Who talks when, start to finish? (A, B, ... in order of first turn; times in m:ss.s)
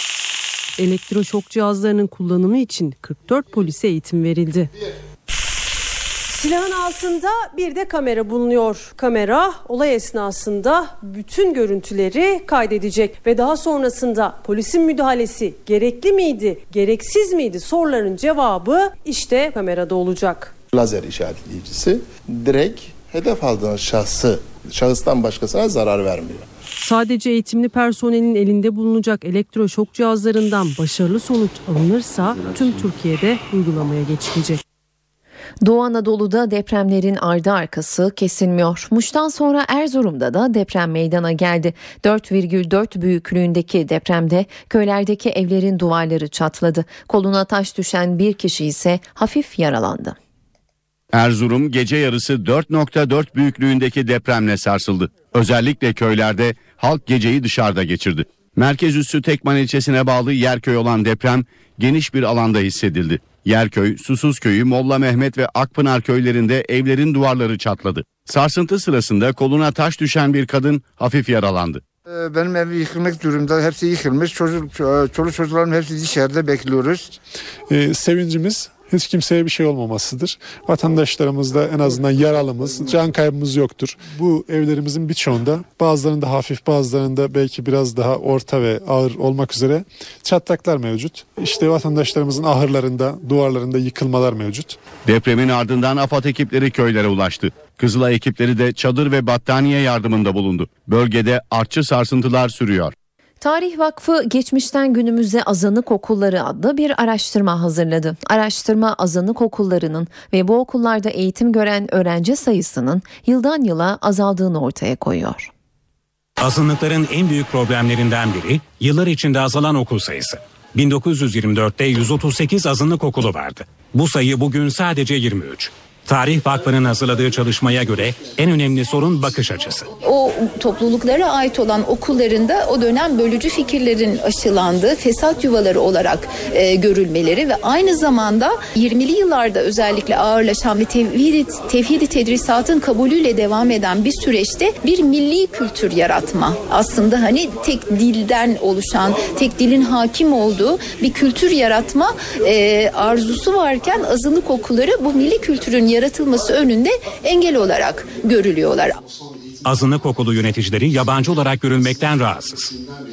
0:00.8-0:04.7 A
0:06.3-0:20.5 A
0:20.7-0:26.5 B
0:26.8-0:34.6 A
0:35.6-0:50.2 C
0:51.1-1:11.8 D
1:12.3-1:17.0 E
1:17.7-1:34.8 F
1:35.1-1:42.9 D
1:43.4-1:55.5 C
1:56.4-2:09.9 G
2:10.0-2:39.0 H
2:39.6-2:42.7 G